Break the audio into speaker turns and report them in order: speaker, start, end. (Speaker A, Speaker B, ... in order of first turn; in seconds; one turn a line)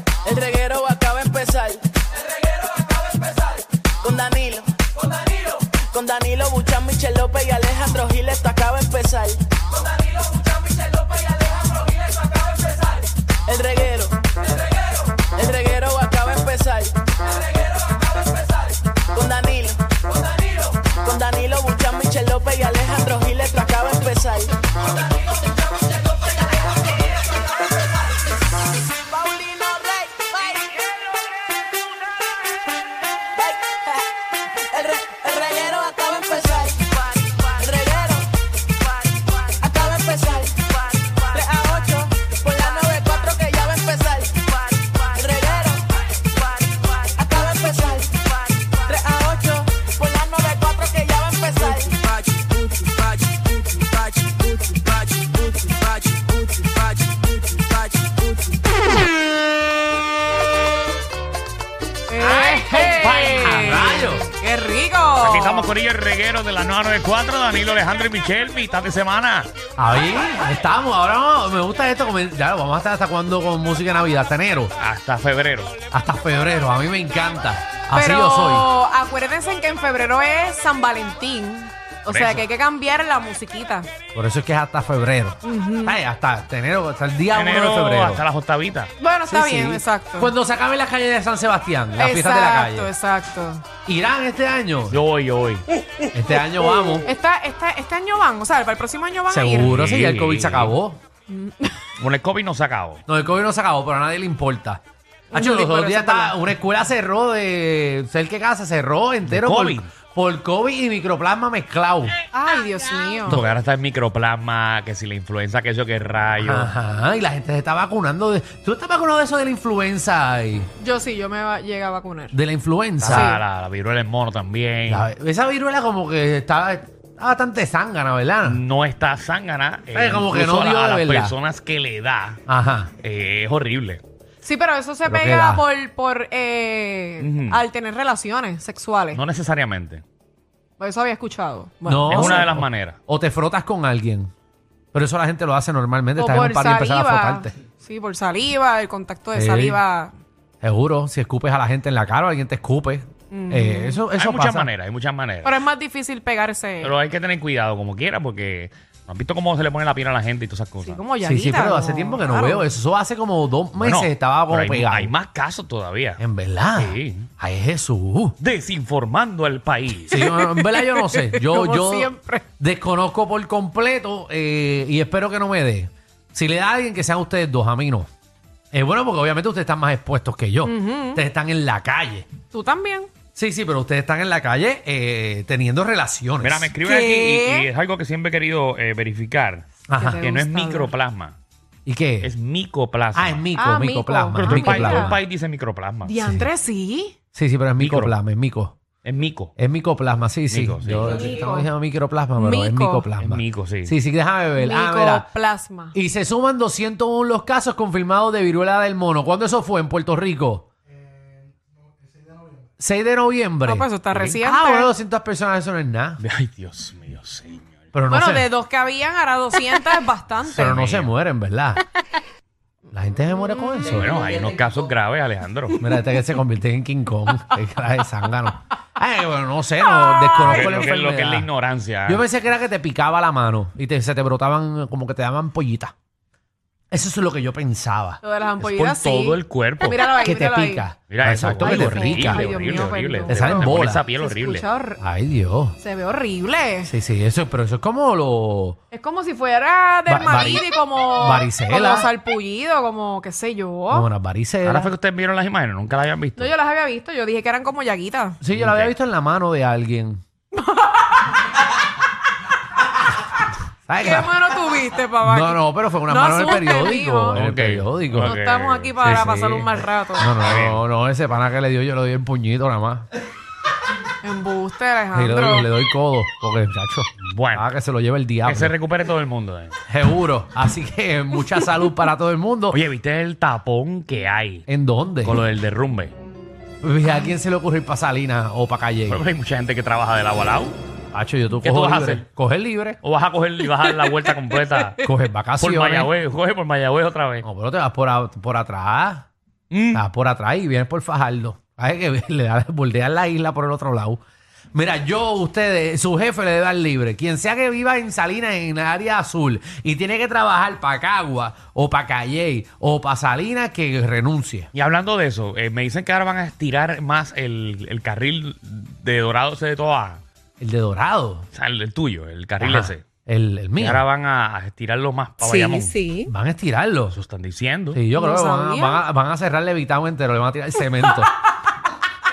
Speaker A: 0.2-2.0
Speaker A: 2.7-9.4
Speaker A: 10.8-17.1
Speaker A: 19.1-24.6
Speaker A: 28.9-30.9
Speaker A: 33.3-38.3
Speaker A: 38.8-58.6
Speaker B: 62.1-65.7
Speaker C: 62.2-64.0
Speaker D: 63.4-64.2
Speaker C: 65.2-69.5
Speaker D: 69.8-74.7
Speaker C: 74.8-75.7
Speaker D: 75.9-78.7
Speaker B: 77.9-83.9
Speaker C: 82.1-82.4
Speaker D: 84.1-88.2
Speaker B: 85.4-86.0
Speaker C: 87.3-88.9
Speaker B: 89.0-90.3
Speaker D: 89.3-92.9
Speaker B: 92.0-93.6
Speaker D: 93.8-95.0
Speaker C: 94.9-95.7
Speaker D: 96.1-97.1
Speaker B: 96.9-99.8
Speaker D: 99.3-101.0
Speaker C: 99.6-100.7
Speaker B: 101.3-101.9
Speaker C: 102.0-103.0
Speaker D: 103.1-104.8
Speaker B: 105.3-106.4
Speaker D: 105.3-112.2
Speaker C: 109.2-109.9
Speaker B: 112.3-113.4
Speaker C: 113.2-116.7
Speaker D: 116.4-120.7
Speaker B: 120.8-122.3
Speaker D: 122.3-123.3
Speaker C: 123.0-125.1
Speaker B: 123.1-123.4
Speaker D: 124.9-128.6
Speaker C: 128.4-132.4
Speaker D: 129.9-131.3
Speaker D: 132.5-132.9
Speaker C: 133.0-134.0
Speaker B: 134.4-139.2
Speaker D: 135.0-135.7
Speaker C: 137.2-137.6
Speaker C: 139.1-140.0
Speaker B: 140.8-142.5
Speaker D: 141.8-144.3
Speaker C: 142.1-143.0
Speaker D: 144.9-147.5
Speaker B: 146.2-150.1
Speaker D: 149.3-149.8
Speaker D: 150.6-154.7
Speaker B: 153.3-154.0
Speaker C: 154.1-155.6
Speaker B: 155.4-156.9
Speaker C: 156.8-161.0
Speaker B: 160.8-162.7
Speaker D: 161.2-165.1
Speaker C: 163.8-166.2
Speaker D: 166.2-168.4
Speaker C: 166.8-167.3
Speaker C: 168.4-170.3
Speaker D: 170.1-178.1
Speaker B: 170.1-172.4
Speaker D: 178.7-182.3
Speaker B: 180.6-181.2
Speaker B: 182.5-183.1
Speaker D: 183.3-186.7
Speaker C: 186.4-191.4
Speaker B: 186.8-187.7
Speaker D: 189.9-190.2
Speaker B: 189.9-190.9
Speaker D: 191.8-192.3
Speaker C: 192.2-193.4
Speaker D: 193.1-195.2
Speaker B: 193.5-195.2
Speaker C: 194.3-196.2
Speaker B: 196.1-197.1
Speaker D: 196.2-196.5
Speaker D: 197.3-198.8
Speaker C: 197.8-198.1
Speaker C: 199.0-199.5
Speaker D: 199.6-205.3
Speaker C: 200.5-201.2
Speaker B: 201.1-201.7
Speaker B: 202.3-203.1
Speaker C: 203.2-203.9
Speaker B: 204.6-205.9
Speaker D: 205.9-210.7
Speaker D: 212.8-216.2
Speaker B: 213.6-214.9
Speaker C: 216.2-217.8
Speaker D: 217.9-218.5
Speaker B: 218.1-220.8
Speaker C: 220.5-221.1
Speaker D: 220.5-221.8
Speaker D: 222.9-224.2
Speaker C: 223.8-225.8
Speaker D: 225.8-231.5
Speaker C: 230.4-232.2
Speaker D: 232.1-235.9
Speaker D: 236.9-238.2
Speaker B: 238.2-240.9
Speaker C: 238.6-240.0
Speaker D: 240.0-242.5
Speaker C: 241.1-244.7
Speaker B: 241.6-245.0
Speaker D: 243.3-244.1
Speaker D: 245.0-245.7
Speaker B: 245.8-246.9
Speaker D: 246.8-248.8
Speaker B: 248.9-254.1
Speaker D: 250.1-252.1
Speaker D: 253.9-254.9
Speaker C: 254.6-256.5
Speaker B: 256.4-258.4
Speaker D: 258.4-260.2
Speaker C: 258.5-258.9
Speaker B: 260.5-261.5
Speaker D: 263.9-264.4
Speaker B: 264.0-267.4
Speaker D: 265.2-268.4
Speaker C: 267.3-269.4
Speaker B: 268.1-270.3
Speaker D: 269.0-273.1
Speaker C: 270.3-270.9
Speaker B: 274.2-275.7
Speaker D: 275.1-278.7
Speaker C: 277.2-277.7
Speaker C: 278.4-279.8
Speaker D: 279.9-282.8
Speaker C: 282.7-284.6
Speaker D: 284.7-285.4
Speaker C: 285.2-286.1
Speaker D: 286.8-289.2
Speaker C: 289.1-290.8
Speaker D: 291.1-293.0
Speaker C: 291.6-292.2
Speaker C: 293.0-295.1
Speaker B: 293.7-294.9
Speaker D: 295.0-296.1
Speaker C: 295.6-297.4
Speaker D: 297.4-299.3
Speaker C: 299.7-300.0
Speaker D: 299.9-304.2
Speaker D: 304.7-314.7
Speaker C: 314.7-320.2
Speaker D: 320.6-321.5
Speaker C: 321.5-323.0
Speaker D: 322.6-324.0
Speaker C: 323.8-325.9
Speaker B: 325.4-326.3
Speaker D: 326.2-327.2
Speaker C: 327.1-328.0
Speaker D: 327.9-331.3
Speaker B: 328.1-329.0
Speaker B: 330.9-331.6